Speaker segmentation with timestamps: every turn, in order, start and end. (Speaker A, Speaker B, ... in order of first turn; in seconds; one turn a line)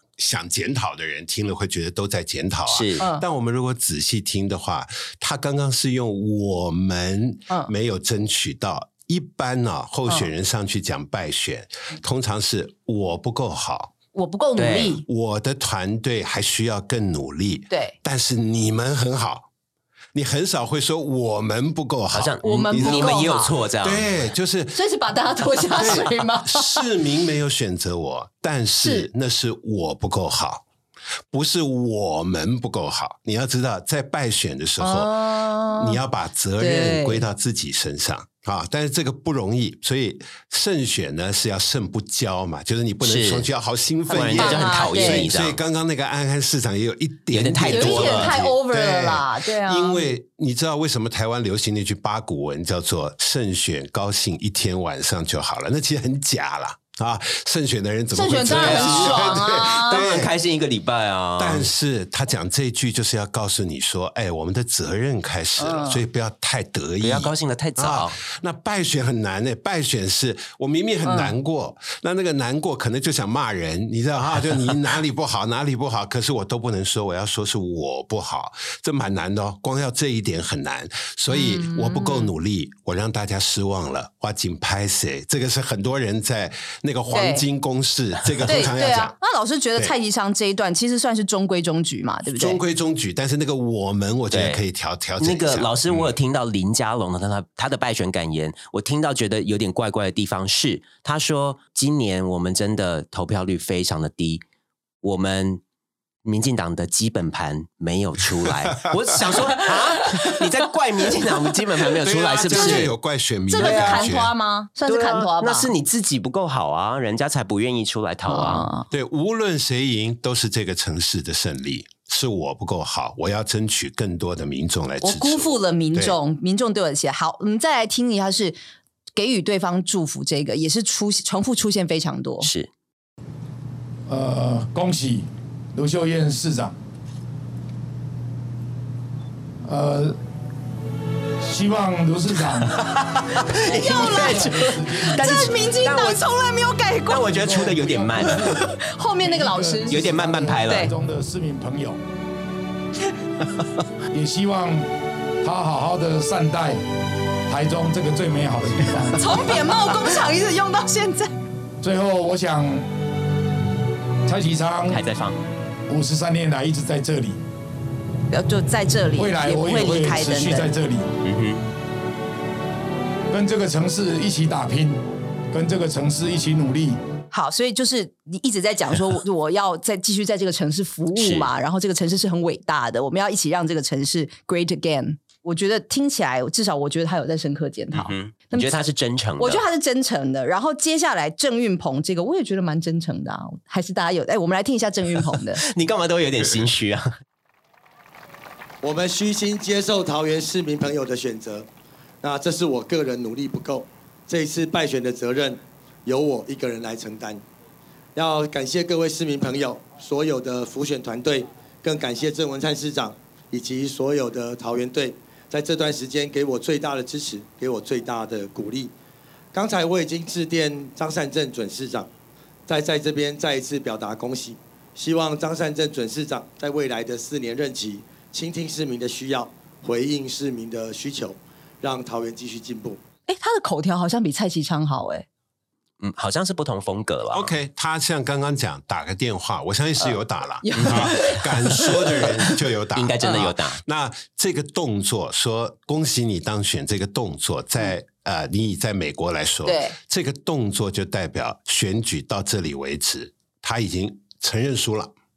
Speaker A: 0.2-13.9
Speaker B: 2.7-3.0
Speaker C: 3.0-3.2
Speaker C: 14.1-15.0
Speaker B: 14.6-15.0
Speaker A: 15.1-19.5
Speaker C: 17.7-17.9
Speaker A: 20.1-24.8
Speaker B: 22.1-24.1
Speaker C: 22.4-23.5
Speaker C: 24.7-26.8
Speaker A: 25.6-30.6
Speaker C: 28.8-29.1
Speaker A: 31.3-60.3
Speaker C: 34.8-36.0
Speaker C: 36.6-37.2
Speaker B: 43.0-43.5
Speaker B: 44.1-45.6
Speaker C: 44.3-45.3
Speaker B: 47.3-48.4
Speaker C: 47.7-50.0
Speaker C: 58.1-60.1
Speaker B: 58.5-61.7
Speaker A: 61.4-89.1
Speaker C: 65.6-66.0
Speaker B: 67.0-68.2
Speaker C: 71.0-71.3
Speaker C: 81.3-82.3
Speaker C: 87.1-87.4
Speaker C: 88.5-92.6
Speaker A: 92.3-96.1
Speaker B: 94.3-94.6
Speaker B: 95.2-104.4
Speaker B: 105.0-105.6
Speaker B: 106.2-112.9
Speaker A: 108.7-109.7
Speaker A: 112.0-114.3
Speaker C: 112.5-112.9
Speaker C: 113.5-115.7
Speaker B: 113.5-114.1
Speaker B: 114.8-118.7
Speaker C: 118.3-118.9
Speaker A: 118.9-126.2
Speaker C: 125.0-128.6
Speaker C: 129.2-132.5
Speaker B: 132.4-132.7
Speaker D: 134.1-136.7
Speaker D: 139.6-140.2
Speaker D: 141.4-142.8
Speaker B: 142.7-146.2
Speaker D: 143.5-145.5
Speaker C: 143.7-144.5
Speaker C: 145.1-147.4
Speaker B: 147.1-148.6
Speaker D: 147.3-152.0
Speaker C: 148.5-150.0
Speaker B: 149.9-150.9
Speaker C: 150.6-150.9
Speaker D: 154.1-154.9
Speaker D: 155.4-156.8
Speaker D: 157.5-159.5
Speaker C: 159.2-161.3
Speaker D: 161.8-162.8
Speaker D: 164.2-165.0
Speaker B: 164.9-165.4
Speaker D: 165.9-167.4
Speaker C: 168.3-170.7
Speaker D: 169.2-171.1
Speaker B: 171.2-171.6
Speaker D: 173.3-175.0
Speaker D: 175.5-177.0
Speaker C: 177.3-188.7
Speaker B: 181.1-181.5
Speaker B: 187.9-189.6
Speaker C: 189.4-195.6
Speaker B: 195.6-197.1
Speaker E: 198.8-201.7
Speaker E: 202.2-207.4
Speaker E: 208.1-218.9
Speaker E: 219.5-222.1
Speaker E: 222.7-233.0
Speaker C: 233.3-235.2
Speaker B: 236.0-237.5
Speaker A: 237.3-255.1
Speaker C: 240.6-242.5
Speaker B: 240.8-241.2
Speaker B: 242.9-243.8
Speaker C: 249.7-249.9